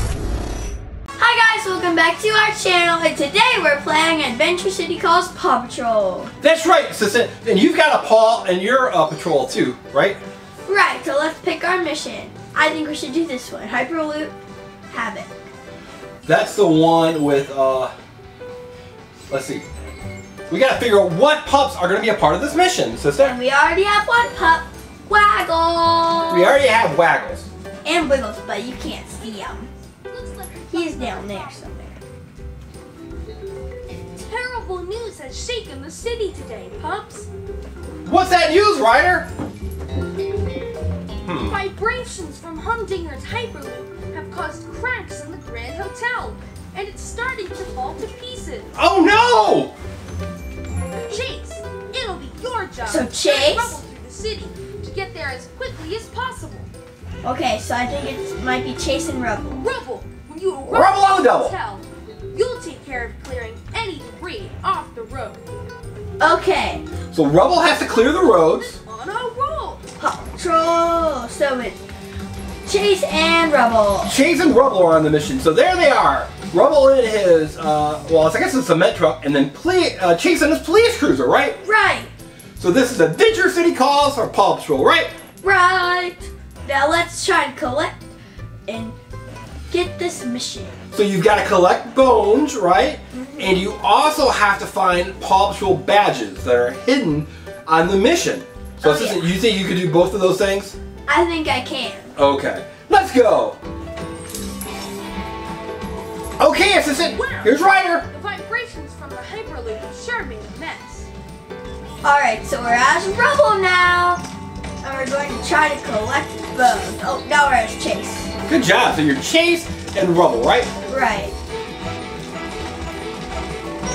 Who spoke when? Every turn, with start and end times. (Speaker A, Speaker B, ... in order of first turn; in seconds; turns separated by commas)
Speaker A: 1.2-6.3, Speaker B: 6.4-10.2, Speaker A: 10.7-14.3, Speaker A: 14.9-15.3, Speaker B: 16.2-17.9, Speaker B: 19.3-19.6, Speaker B: 20.5-23.4, Speaker A: 23.2-26.6, Speaker B: 26.3-27.5, Speaker A: 27.8-29.7, Speaker C: 30.1-31.6, Speaker A: 30.7-32.0, Speaker C: 34.2-37.3, Speaker B: 38.0-39.3, Speaker B: 41.2-41.6, Speaker C: 41.5-48.7, Speaker B: 48.7-49.7, Speaker C: 51.1-56.7, Speaker A: 52.8-53.8, Speaker A: 57.2-59.6, Speaker C: 59.5-65.4, Speaker B: 60.6-61.5, Speaker A: 66.2-66.8, Speaker B: 67.1-68.8, Speaker C: 68.8-69.8, Speaker A: 70.0-71.8, Speaker A: 72.7-74.1, Speaker B: 74.0-81.6, Speaker A: 81.6-82.1, Speaker B: 82.6-85.1, Speaker A: 85.4-88.0, Speaker A: 88.7-89.0, Speaker A: 89.7-90.7, Speaker B: 90.9-100.7, Speaker A: 93.1-93.6, Speaker A: 98.8-99.3, Speaker A: 101.1-102.1, Speaker B: 102.2-103.6, Speaker B: 106.4-108.0, Speaker C: 107.0-111.1, Speaker A: 112.0-114.2, Speaker A: 114.8-118.3, Speaker B: 118.5-120.7, Speaker A: 120.9-121.3